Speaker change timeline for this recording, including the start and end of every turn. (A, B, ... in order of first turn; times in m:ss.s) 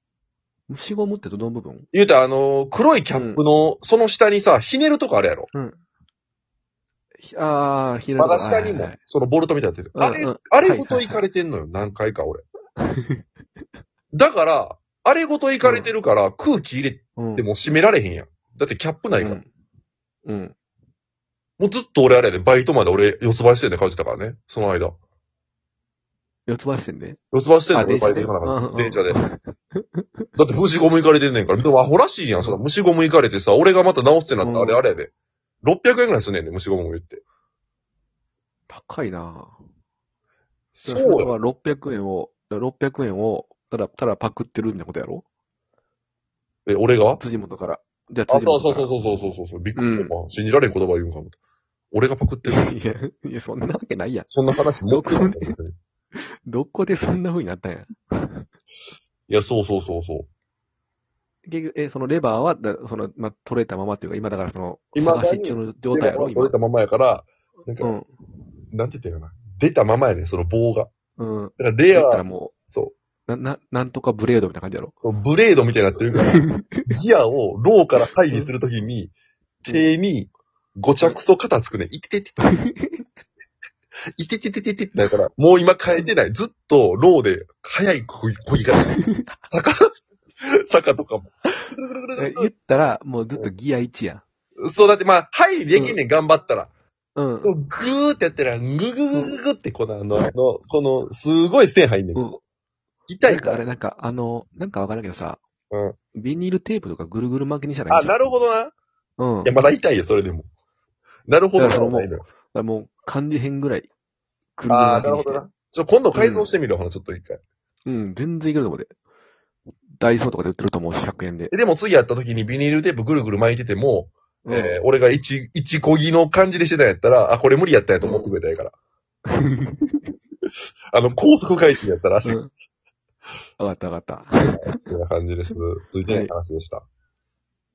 0:00.7-0:01.9 A
0:01.9-0:05.5 B
0:03.1-0:03.4 A
0:05.5-0:05.8 A
0:07.2-0:09.0 A
0:08.2-0:12.4 B
0:09.9-0:11.2 A
0:12.8-0:13.2 A
0:14.1-0:19.4 B
0:15.6-0:15.9 A
0:17.2-0:17.5 A
0:19.2-0:19.5 A
0:20.2-0:20.5 A
0:21.6-0:25.0 B
0:26.5-0:27.2 A
0:27.3-0:29.2 B
0:27.7-0:30.1 A
0:30.4-0:35.1 B
0:34.4-0:34.8 A
0:35.6-0:37.2 B
0:38.7-0:39.6 A
0:40.8-0:41.3 B
0:40.9-0:45.2 A
0:46.7-0:47.2 B
0:47.2-0:48.9 A
0:48.3-0:51.4 B
0:49.8-0:50.1 A
0:51.9-0:52.7 B
0:52.4-0:55.5 A
0:54.3-0:55.8 B
0:56.1-0:58.5 A
0:59.3-1:00.3 B
1:01.4-1:06.6 A
1:05.0-1:07.9 B
1:07.8-1:08.2 A
1:08.7-1:10.9 B
1:11.2-1:12.5 A
1:11.6-1:13.0 B
1:13.3-1:14.9 A
1:15.0-1:19.1 B
1:16.2-1:16.9 A
1:19.6-1:22.4 B
1:22.5-1:23.0 A
1:24.2-1:32.5 B
1:28.8-1:29.4 A
1:32.2-1:34.2 A
1:34.6-1:36.7 B
1:37.2-1:37.5 A
1:37.4-1:42.3 B
1:43.1-1:43.6 B
1:43.2-1:45.4 A
1:45.7-1:46.0 B
1:46.1-1:48.2 A
1:47.9-1:48.7 B
1:49.2-1:49.5 A
1:49.4-1:50.5 B
1:51.3-1:52.3 B
1:51.6-1:53.9 A
1:54.6-1:55.4 A
1:54.7-1:57.4 B
1:56.1-1:56.5 A
1:57.9-1:58.9 A
2:00.0-2:01.5 A
2:01.5-2:08.8 B
2:04.4-2:04.8 A
2:09.3-2:10.0 A
2:10.9-2:12.4 B
2:12.2-2:12.5 A
2:13.6-2:14.8 A
2:14.6-2:16.9 B
2:16.1-2:16.3 A